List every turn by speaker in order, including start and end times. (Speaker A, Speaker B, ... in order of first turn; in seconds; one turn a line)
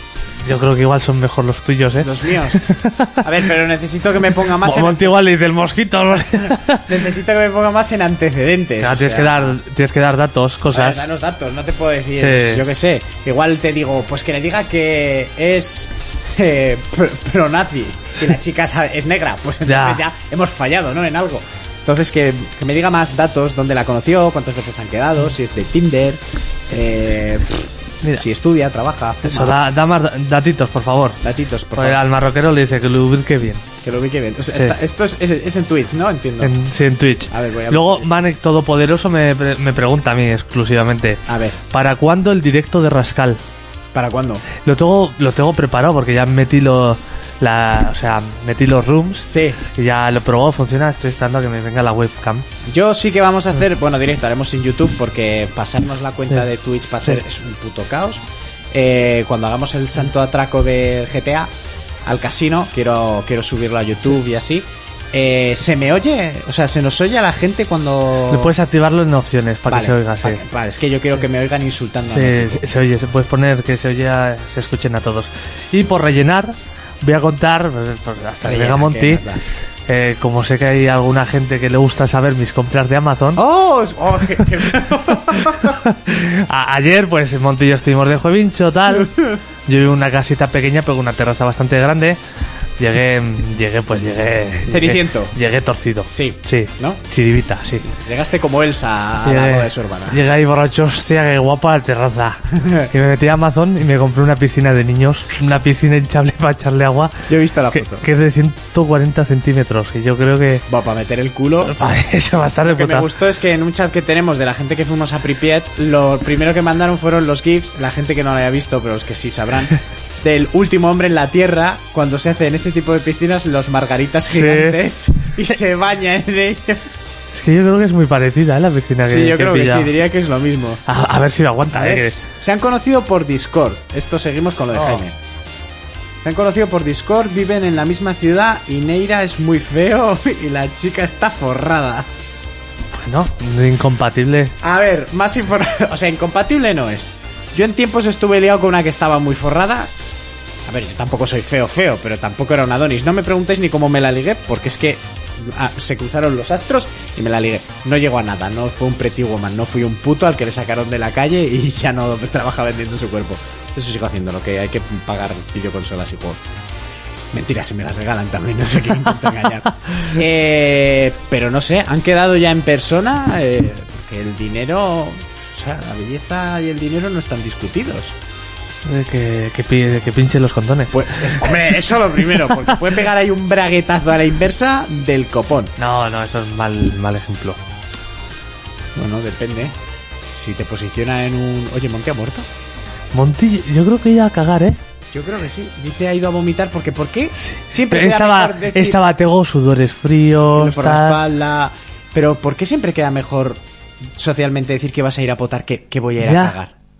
Speaker A: 0.4-3.2
Speaker B: 2.0-2.7
Speaker B: 3.2-5.2
Speaker A: 4.6-6.9
Speaker B: 6.8-9.6
Speaker A: 8.8-11.0
Speaker B: 10.7-29.6
Speaker A: 12.2-12.6
Speaker A: 19.6-20.0
Speaker A: 29.2-31.2
Speaker B: 31.2-32.0
Speaker A: 31.8-33.6
Speaker B: 33.8-36.5
Speaker A: 36.4-43.4
Speaker B: 37.3-38.1
Speaker B: 41.3-41.6
Speaker B: 43.9-44.4
Speaker A: 44.6-52.4
Speaker B: 49.3-49.6
Speaker B: 52.7-61.5
Speaker B: 62.0-68.5
Speaker A: 68.3-70.4
Speaker B: 69.7-72.6
Speaker A: 72.1-79.2
Speaker B: 78.4-79.4
Speaker A: 79.9-83.4
Speaker B: 83.4-85.8
Speaker A: 85.4-89.1
Speaker B: 88.9-89.4
Speaker A: 89.7-92.2
Speaker A: 92.8-97.9
Speaker B: 94.7-95.3
Speaker B: 96.1-97.0
Speaker B: 97.9-100.2
Speaker A: 99.2-110.7
Speaker B: 102.6-102.8
Speaker B: 107.3-108.0
Speaker B: 110.7-112.0
Speaker A: 111.6-113.1
Speaker B: 112.7-126.9
Speaker A: 124.3-124.8
Speaker A: 127.3-129.9
Speaker B: 129.0-130.8
Speaker A: 130.8-132.2
Speaker B: 131.7-135.2
Speaker B: 136.2-142.1
Speaker A: 143.0-144.5
Speaker B: 144.6-149.9
Speaker B: 150.7-166.4
Speaker B: 167.3-178.1
Speaker A: 178.8-181.5
Speaker B: 180.9-185.7
Speaker A: 185.8-187.6
Speaker B: 188.9-189.7
Speaker B: 190.3-192.5
Speaker A: 193.1-194.8
Speaker B: 195.1-199.0
Speaker A: 197.4-201.2
Speaker B: 200.2-203.6
Speaker B: 204.2-206.7
Speaker A: 206.2-206.6